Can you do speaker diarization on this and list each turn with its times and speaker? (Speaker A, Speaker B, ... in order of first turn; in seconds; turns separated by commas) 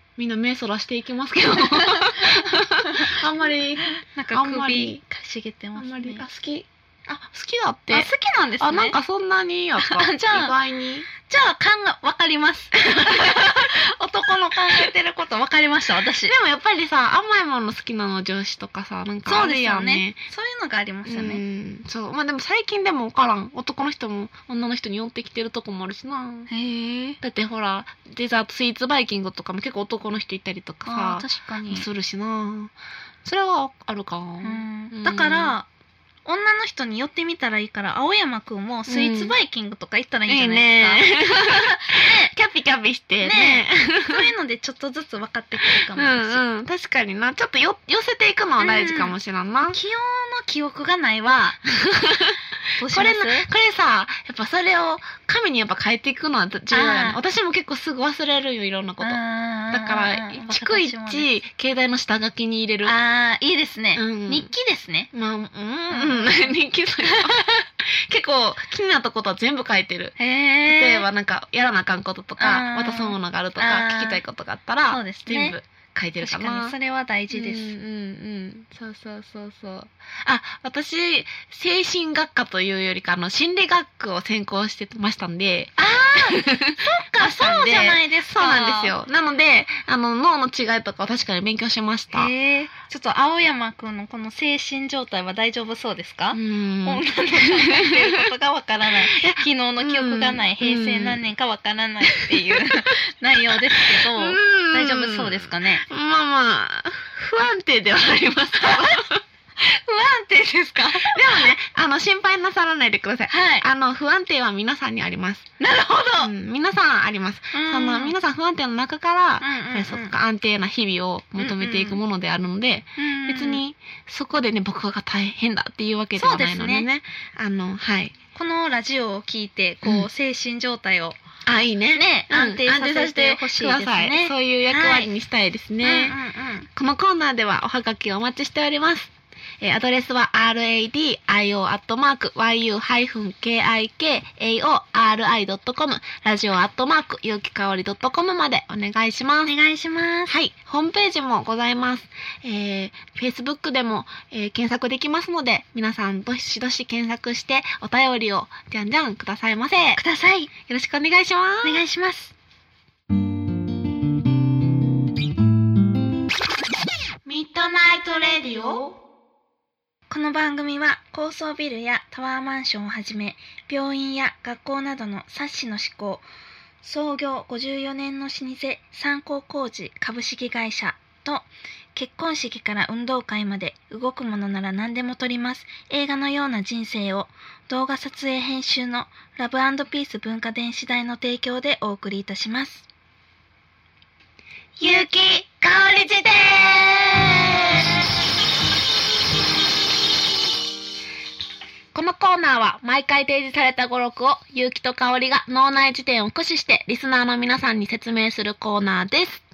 Speaker A: 0.2-5.0, Speaker B: 1.8-2.2, Speaker B: 4.1-6.2, Speaker A: 5.8-8.1, Speaker B: 7.9-8.9, Speaker A: 8.6-11.1, Speaker B: 9.8-10.5, Speaker B: 11.1-16.3, Speaker A: 12.9-13.6, Speaker A: 16.2-20.2, Speaker B: 19.2-21.4, Speaker A: 21.0-26.5, Speaker B: 26.5-27.2, Speaker A: 27.2-32.7, Speaker B: 30.9-31.9, Speaker A: 33.2-35.5, Speaker B: 34.4-35.7, Speaker B: 36.2-42.3, Speaker A: 38.9-39.3, Speaker A: 40.3-44.3, Speaker B: 43.2-46.4, Speaker A: 45.7-49.8, Speaker B: 48.6-51.6, Speaker A: 51.7-62.9, Speaker B: 52.8-53.5, Speaker B: 56.7-57.2, Speaker B: 59.0-61.4, Speaker B: 62.8-65.1, Speaker A: 63.9-64.5, Speaker A: 65.1-76.7, Speaker B: 65.9-66.5, Speaker B: 70.2-71.0, Speaker B: 72.4-74.2, Speaker B: 74.9-75.6, Speaker B: 76.2-77.7, Speaker A: 77.3-92.3, Speaker B: 85.8-88.9, Speaker B: 92.1-105.8, Speaker A: 96.3-98.2, Speaker A: 99.0-101.2, Speaker A: 102.1-102.8, Speaker A: 103.5-109.2, Speaker B: 108.6-109.0, Speaker B: 109.6-111.5, Speaker A: 111.0-115.5, Speaker B: 113.3-113.7, Speaker B: 115.6-116.3, Speaker A: 116.2-128.2, Speaker B: 117.5-118.2, Speaker B: 119.4-120.1, Speaker B: 121.4-122.0, Speaker B: 123.0-123.6, Speaker B: 126.1-126.9, Speaker B: 128.3-131.2, Speaker A: 131.4-136.2, Speaker B: 131.9-135.1, Speaker B: 135.8-136.7, Speaker A: 136.7-149.5, Speaker B: 149.4-150.3, Speaker A: 150.3-160.0, Speaker B: 159.9-160.5, Speaker A: 160.7-161.8, Speaker B: 161.6-162.3, Speaker A: 167.2-169.0, Speaker B: 170.1-176.2, Speaker B: 176.8-192.8, Speaker A: 194.8-198.0, Speaker A: 201.9-209.4